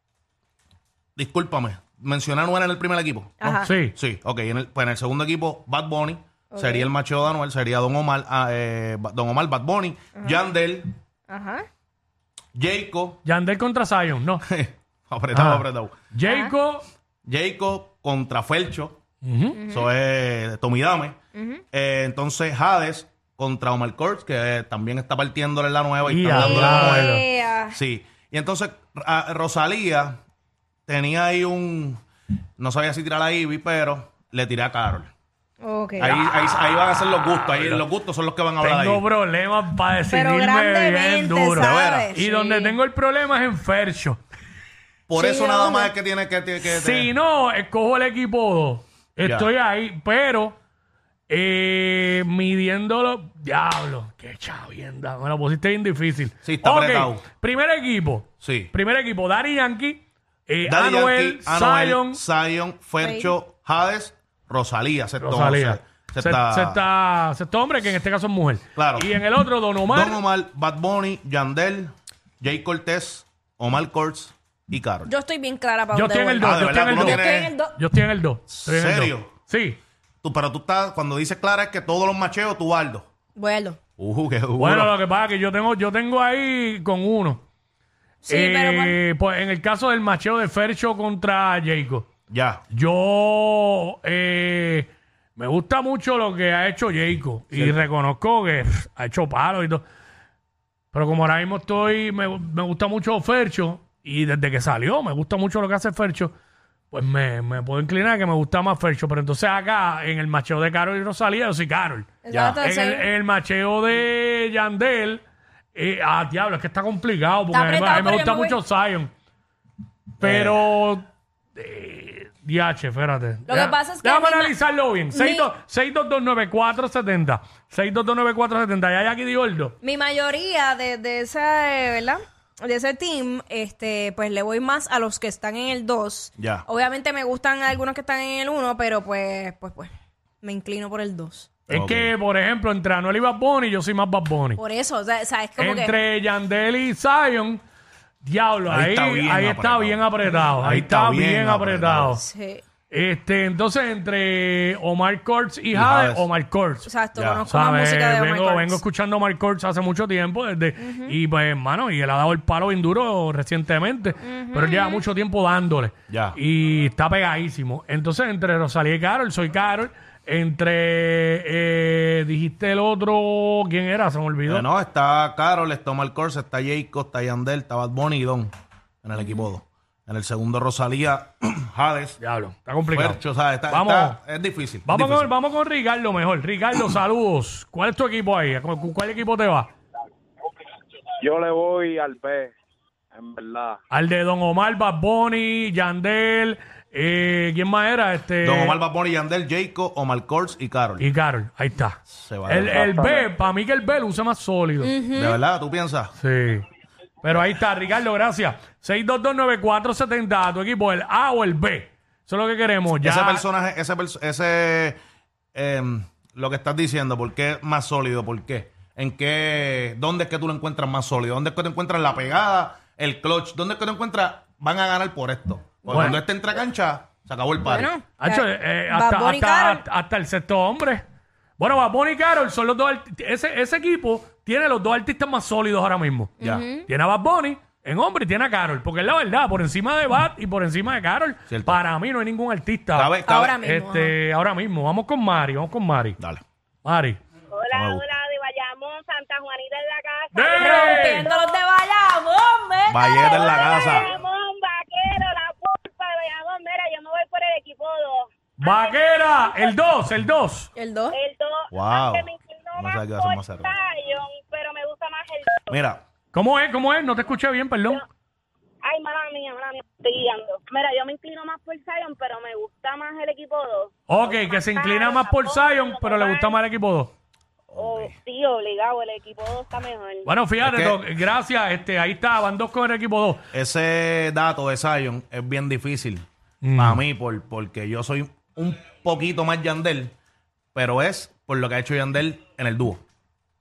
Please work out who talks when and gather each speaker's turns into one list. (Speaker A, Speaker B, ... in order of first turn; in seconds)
Speaker A: 1.2-3.4, 3.9-10.9, 12.6-13.2, 14.4-15.9, 17.3-19.0, 19.7-21.2, 21.7-27.1, 27.7-30.2, 30.9-32.0, 32.6-35.1, 36.0-39.0, 41.6-42.1, 45.1-47.1, 49.2-49.5, 56.4-57.2, 58.4-58.7, 60.6-66.8, 68.8-69.1, 69.9-75.1, 76.4-77.5, 78.5-79.3, 80.2-83.0, 84.0-85.0, 92.3-92.6, 97.5-97.8, 112.3-112.6, 120.2-120.6, 136.4-136.7, 141.7-142.1, 148.7-152.2, 155.7-156.3, 157.2-157.5, 166.1-166.4, 174.5-178.5, 179.0-182.2, 182.9-185.3, 198.4-201.1, 202.1-202.9, 205.2-206.1, 213.0-215.0, 215.6-227.9, 241.5-241.8, 242.9-243.6, 247.7-248.1, 252.9-254.1, 261.7-263.8, 265.7-266.0, 277.7-278.1, 280.6-281.0, 283.5-286.2, 286.8-290.1, 290.8-293.0
Speaker B: 3.4-3.7, 6.5-6.9, 11.3-11.7, 16.2-16.5, 19.5-19.9, 21.4-21.6, 26.3-27.8, 35.6-36.2, 40.1-42.8, 45.1-45.9, 63.0-63.3, 75.1-77.7, 83.4-83.8, 88.2-89.0, 112.3-113.1, 117.5-118.6, 123.5-124.5, 125.1-125.5, 129.8-139.9, 140.4-141.5, 144.6-145.9, 152.1-152.6, 156.8-158.8, 160.8-161.2, 164.2-165.0, 204.8-205.4, 227.6-229.8, 236.4-236.9, 243.3-244.2, 250.6-253.4, 260.8-261.2
Speaker C: 3.4-4.0, 13.2-14.4, 15.3-16.9, 19.2-19.6, 26.1-27.2, 37.5-37.8, 38.6-44.2, 46.6-50.6, 51.3-62.2, 65.2-70.2, 75.9-79.8, 84.6-87.4, 88.3-92.1, 92.7-99.8, 100.9-106.3, 106.9-115.2, 115.7-119.1, 120.2-129.8, 141.7-144.6, 145.6-147.6, 148.2-152.2, 152.9-156.9, 157.5-174.7, 182.2-184.2, 184.8-189.7, 193.9-198.8, 201.0-204.9, 206.2-206.7, 207.2-213.4, 225.9-226.2, 228.2-231.1, 231.6-236.3, 236.9-246.2, 246.8-247.2, 250.3-251.3, 258.6-260.7, 266.3-268.0, 274.1-277.1, 280.3-283.4, 286.6-287.0
Speaker D: 191.2-192.5, 193.2-193.8, 202.7-203.3
Speaker E: 247.5-251.6, 253.0-259.7, 261.1-265.7, 268.8-276.6, 277.8-280.3